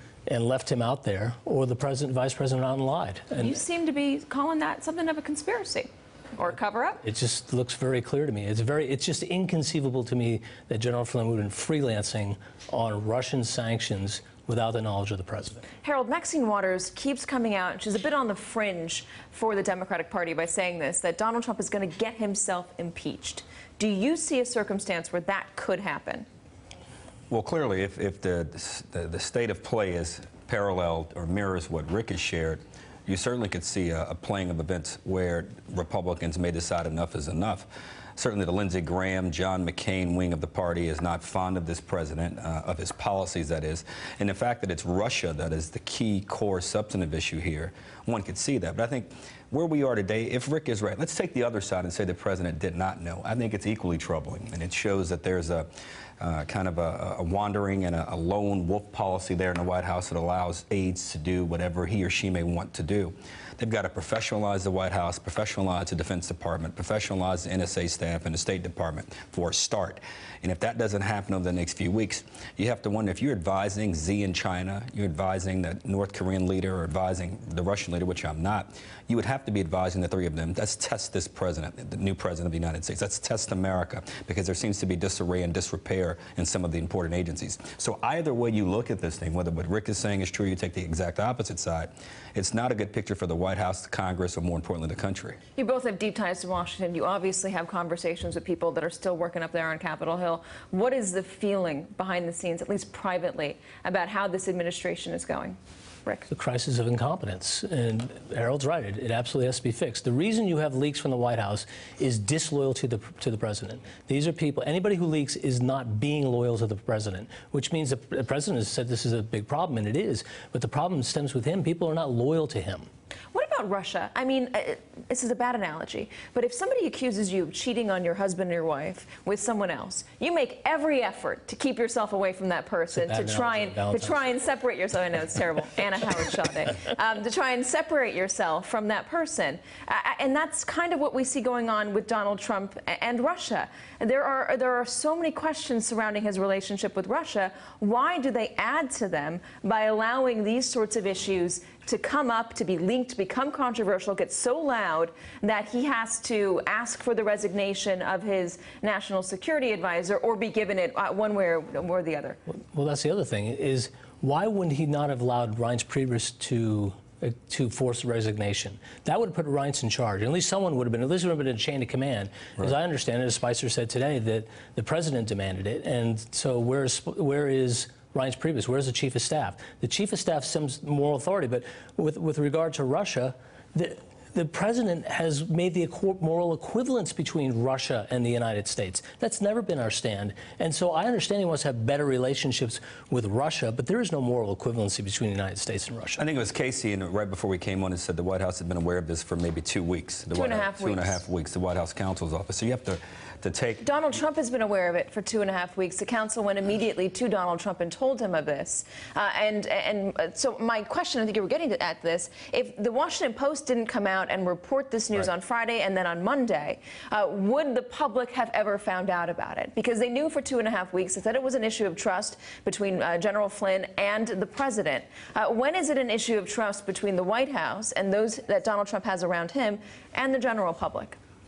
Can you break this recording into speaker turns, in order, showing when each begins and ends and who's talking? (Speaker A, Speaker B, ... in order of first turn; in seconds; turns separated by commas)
Speaker A: 0.3-3.6, Speaker B: 3.4-7.0, Speaker A: 7.0-15.7, Speaker B: 15.8-26.3, Speaker C: 27.3-55.7, Speaker C: 56.2-95.4, Speaker B: 95.6-106.3, Speaker A: 106.3-122.9, Speaker B: 123.3-162.4, Speaker A: 132.9-134.3, Speaker A: 162.7-196.2, Speaker C: 196.2-203.8, Speaker B: 200.3-201.2, Speaker B: 203.8-231.2